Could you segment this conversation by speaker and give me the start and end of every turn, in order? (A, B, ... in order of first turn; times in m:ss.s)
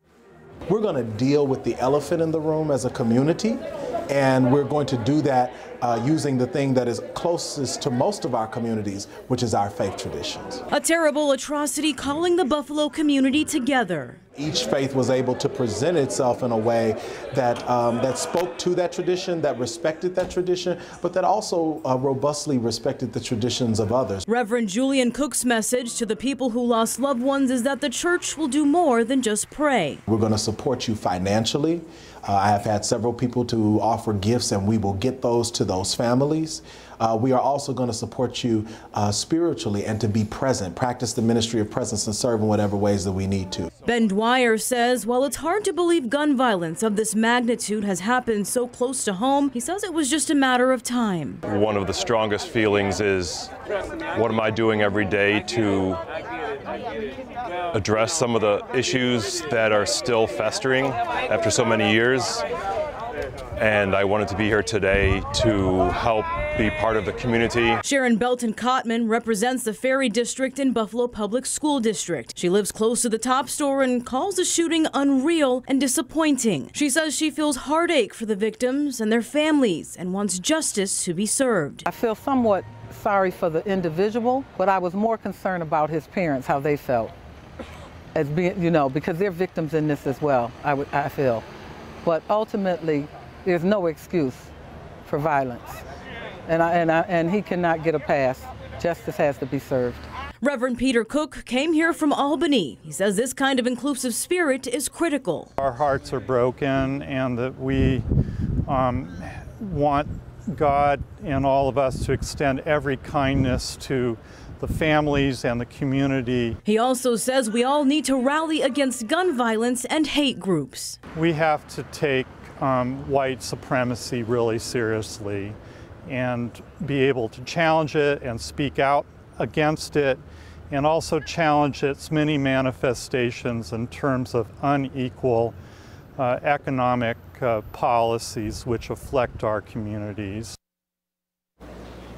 0:00.7-0:10.6 A
0:10.7-0:14.2 B
0:14.4-0:24.2 A
0:24.3-0:30.0 B
0:30.1-0:43.7 A
0:43.8-0:51.4 B
0:51.4-0:53.5 C
0:54.1-0:56.0 C
0:57.7-1:02.4 C
1:03.6-1:07.8 C
1:07.8-1:21.9 B
1:21.9-1:27.1 D
1:28.1-1:31.4 D
1:32.0-1:34.5 D
1:35.1-1:35.8 D
1:36.5-1:40.0 D
1:40.4-1:45.5 B
1:45.6-1:48.0 E
1:48.6-1:56.6 E
1:56.6-2:01.0 B
2:01.2-2:15.5 E
2:16.2-2:20.6 E